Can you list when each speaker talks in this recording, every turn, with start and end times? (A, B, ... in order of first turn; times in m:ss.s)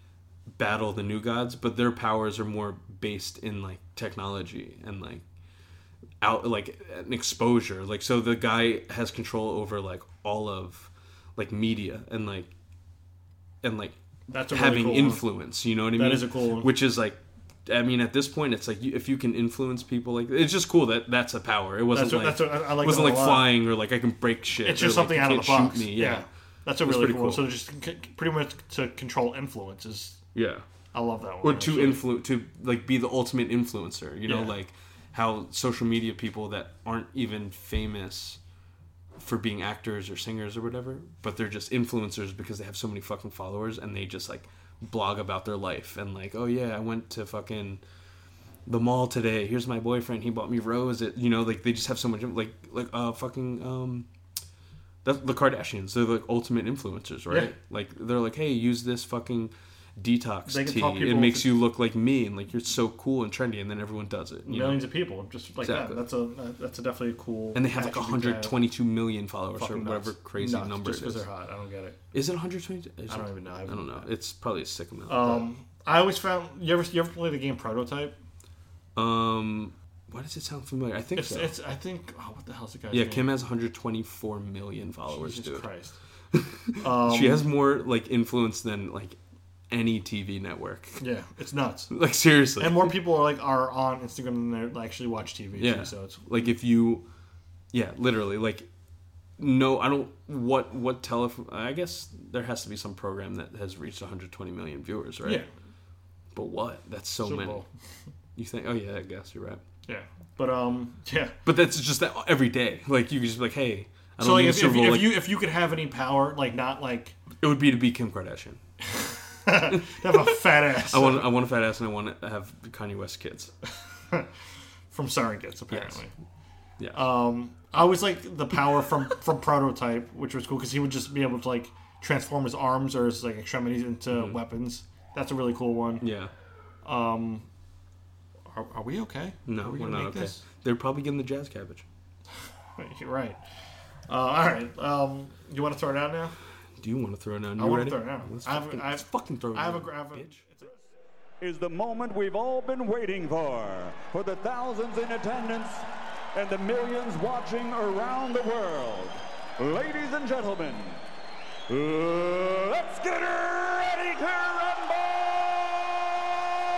0:00.6-0:05.2 A
0:06.2-0:12.5 A
0:13.6-0:14.0 A
0:14.3-0:15.2 B
0:14.5-0:26.3 A
0:16.0-0:16.7 B
0:21.9-0:23.5 B
0:24.6-0:30.2 B
0:26.8-0:27.5 A
0:30.4-0:30.6 A
0:30.9-0:32.0 B
0:31.4-0:38.4 A
0:34.3-0:34.5 B
0:39.2-0:47.8 A
0:48.6-0:54.1 A
0:55.0-1:04.8 A
0:57.3-0:57.5 B
1:00.4-1:01.5 B
1:04.4-1:08.6 B
1:05.6-1:06.0 A
1:07.5-1:11.2 A
1:09.6-1:12.0 B
1:12.1-1:15.5 A
1:13.1-1:14.1 B
1:15.1-1:18.2 B
1:19.0-1:21.5 A
1:21.2-1:23.3 B
1:22.9-1:25.7 A
1:25.1-1:26.0 B
1:26.3-1:29.2 A
1:26.8-1:27.4 B
1:29.7-1:31.0 A
1:31.0-1:31.9 B
1:31.9-1:33.0 A
1:32.6-1:36.2 B
1:35.6-1:37.1 A
1:37.7-1:38.7 A
1:39.4-1:45.4 A
1:45.2-1:45.5 B
1:46.3-1:47.6 A
1:47.2-1:47.7 B
1:48.4-1:49.6 A
1:49.9-1:51.4 B
1:51.4-1:55.3 A
1:54.2-1:57.2 B
1:57.4-1:58.6 A
1:58.9-2:01.3 B
1:59.7-2:03.5 A
2:04.9-2:06.1 B
2:05.7-2:06.0 A
2:06.9-2:16.0 B
2:14.1-2:14.4 A
2:16.0-2:16.3 A
2:16.8-2:17.5 B
2:18.5-2:20.4 B
2:19.5-2:21.9 A
2:22.8-2:23.4 B
2:24.1-2:26.4 B
2:26.8-2:30.4 A
2:27.6-2:30.8 B
2:31.4-2:41.0 C
2:41.7-2:45.6 C